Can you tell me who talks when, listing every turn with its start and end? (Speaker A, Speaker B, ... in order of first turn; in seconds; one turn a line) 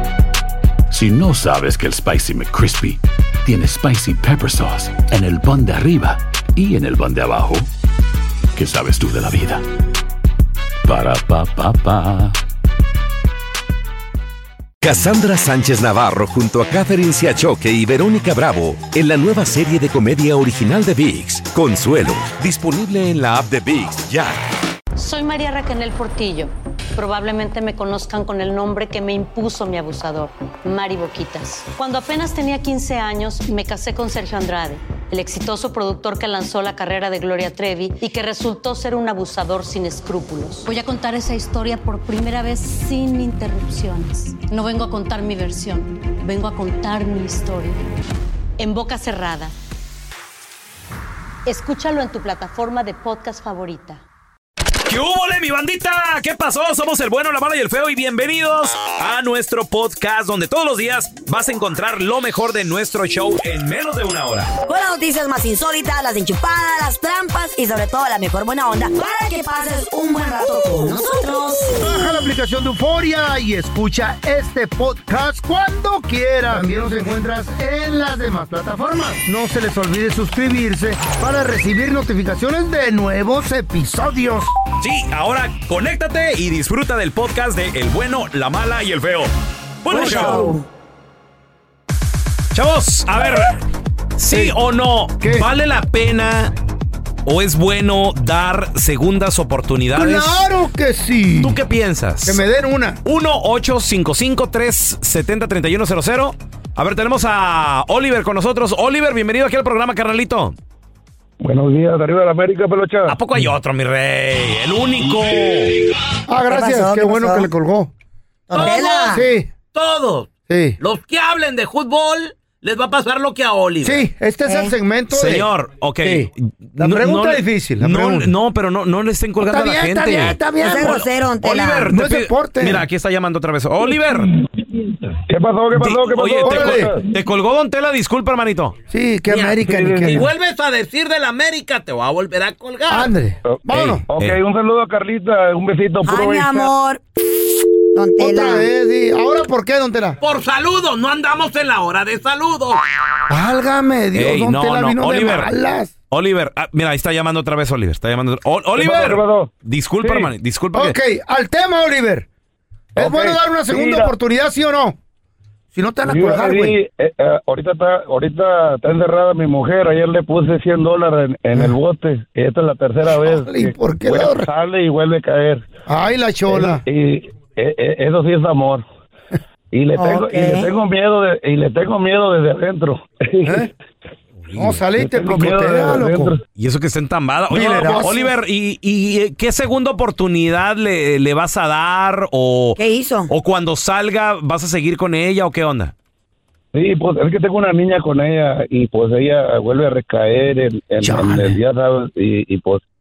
Speaker A: 0.9-7.7
Speaker A: 8.5-9.6
Speaker A: 10.8-12.4
Speaker B: 14.8-24.4
Speaker C: 24.9-47.8
Speaker C: 48.6-49.5
Speaker C: 51.5-54.0
Speaker D: 54.9-64.5
Speaker E: 64.7-71.8
Speaker F: 71.7-84.5
Speaker D: 84.8-89.3
Speaker D: 89.8-90.5
Speaker E: 89.9-90.6
Speaker F: 89.9-90.5
Speaker D: 92.5-93.5
Speaker D: 94.2-96.5
Speaker F: 94.3-94.5
Speaker F: 95.2-95.5
Speaker D: 97.2-100.4
Speaker F: 99.9-101.6
Speaker D: 101.4-102.4
Speaker F: 102.2-103.0
Speaker D: 103.0-110.5
Speaker G: 111.4-113.2
Speaker D: 113.1-115.8
Speaker F: 116.3-117.9
Speaker E: 116.5-117.5
Speaker E: 118.5-119.2
Speaker H: 118.5-124.1
Speaker F: 118.6-119.5
Speaker F: 120.5-120.8
Speaker F: 123.8-125.5
Speaker E: 124.4-124.7
Speaker D: 125.1-134.4
Speaker F: 126.0-128.3
Speaker F: 129.4-131.0
Speaker E: 130.6-131.9
Speaker F: 131.9-132.8
Speaker G: 135.3-137.0
Speaker D: 135.7-138.7
Speaker F: 136.4-136.9
Speaker F: 138.9-140.3
Speaker H: 139.3-143.1
Speaker G: 139.6-140.3
Speaker F: 142.9-144.0
Speaker G: 143.4-146.7
Speaker D: 143.7-144.4
Speaker E: 146.0-147.0
Speaker E: 147.9-148.7
Speaker F: 148.2-150.2
Speaker H: 150.2-152.8
Speaker F: 153.3-155.9
Speaker D: 154.2-155.5
Speaker D: 156.1-160.9
Speaker G: 158.8-159.5
Speaker G: 160.0-160.3
Speaker F: 160.7-162.3
Speaker F: 162.9-165.0
Speaker G: 163.0-164.1
Speaker F: 165.7-166.8
Speaker G: 166.1-175.7
Speaker F: 173.1-174.5
Speaker F: 175.9-176.8
Speaker G: 176.5-178.8
Speaker G: 179.7-183.7
Speaker E: 179.9-180.7
Speaker F: 184.5-186.3
Speaker G: 185.0-186.4
Speaker D: 186.6-195.9
Speaker F: 187.5-188.3
Speaker E: 192.8-193.3
Speaker G: 196.7-202.8
Speaker F: 201.0-201.6